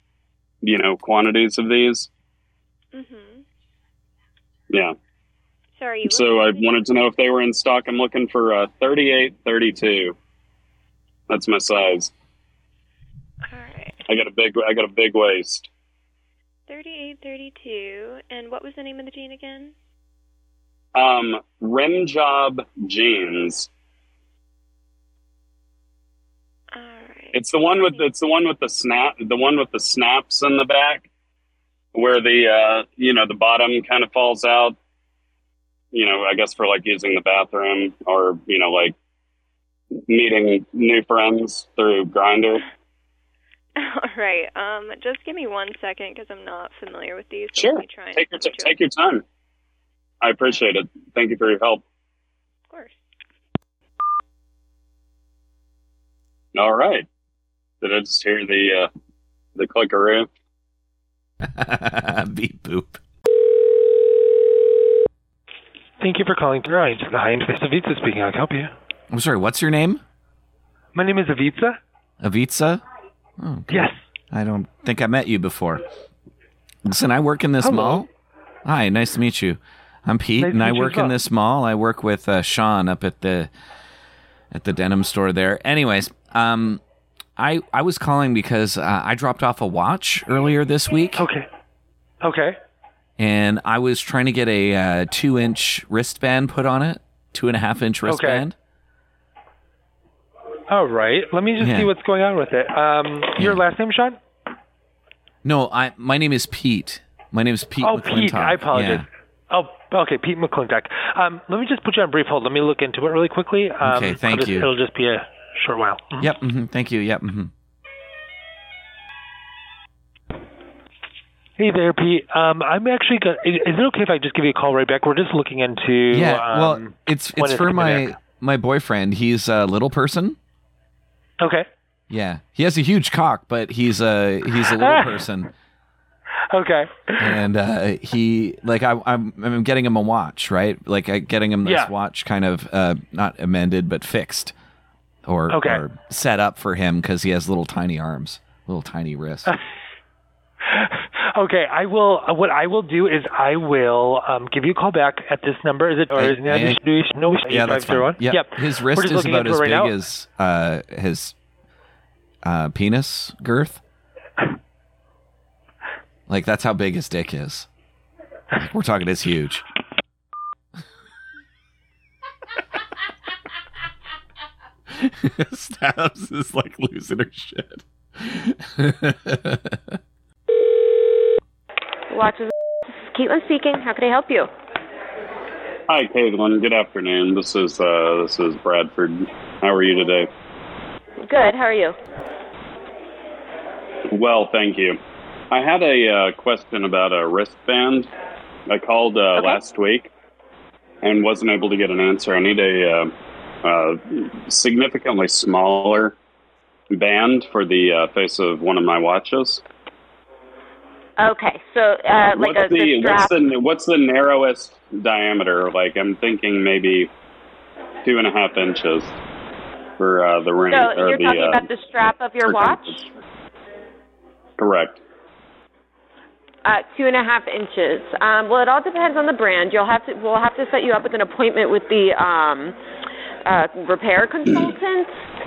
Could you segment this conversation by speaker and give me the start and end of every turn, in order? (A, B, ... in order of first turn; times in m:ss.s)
0:00.6-0:02.1 A
0:02.9-0:03.4 B
0:05.8-0:06.9 B
0:06.0-0:10.2 A
0:11.3-0:12.1 A
0:13.5-0:14.0 B
0:14.1-0:15.7 A
0:16.7-0:19.7 B
0:21.0-0:23.7 A
0:26.7-0:28.1 B
0:27.3-0:31.1 A
0:31.9-0:34.8 A
0:35.9-0:39.0 A
0:40.1-0:42.6 A
0:43.8-0:48.8 B
0:47.5-0:49.2 A
0:50.2-0:51.8 A
0:52.7-0:53.0 B
0:56.6-0:57.1 A
0:57.8-0:58.9 A
0:59.6-1:00.3 A
1:01.4-1:03.0 C
1:06.0-1:08.7 D
1:09.1-1:10.0 C
1:11.0-1:11.8 D
1:12.2-1:12.8 C
1:13.4-1:15.8 C
1:13.7-1:13.9 D
1:16.8-1:18.1 C
1:17.6-1:18.0 D
1:18.6-1:23.5 C
1:20.4-1:21.2 D
1:24.5-1:26.8 C
1:27.4-1:31.3 C
1:31.2-1:31.5 D
1:32.2-1:32.6 D
1:33.2-1:38.6 C
1:38.1-1:38.5 D
1:40.7-1:44.2 D
1:41.6-1:41.9 C
1:43.4-1:43.6 C
1:45.4-1:49.1 C
1:47.8-1:56.3 D
1:53.8-1:54.7 C
1:56.2-1:57.5 C
2:01.6-2:08.1 D
2:06.1-2:10.4 C
2:11.4-2:11.7 D
2:12.1-2:15.5 C
2:14.6-2:15.2 D
2:16.5-2:17.3 D
2:17.2-2:24.5 C
2:21.6-2:21.9 D
2:25.3-2:29.5 C
2:25.5-2:25.8 D
2:30.8-2:40.0 D
2:36.1-2:36.8 C
2:37.5-2:41.4 C
2:42.4-2:43.8 C
2:46.3-2:47.7 C
2:48.6-2:49.6 C
2:54.9-2:59.8 C
3:02.1-3:04.5 E
3:05.9-3:10.3 A
3:11.2-3:12.0 E
3:14.1-3:15.0 A
3:15.5-3:18.1 A
3:18.7-3:20.1 A
3:19.4-3:19.6 E
3:21.0-3:26.2 A
3:26.9-3:29.6 A
3:31.2-3:33.4 E
3:32.4-3:37.1 A
3:38.0-3:39.2 A
3:40.0-3:41.7 A
3:40.7-3:43.1 E
3:42.4-3:43.0 A
3:44.6-3:45.0 A
3:46.6-3:52.8 E
3:53.4-3:55.1 E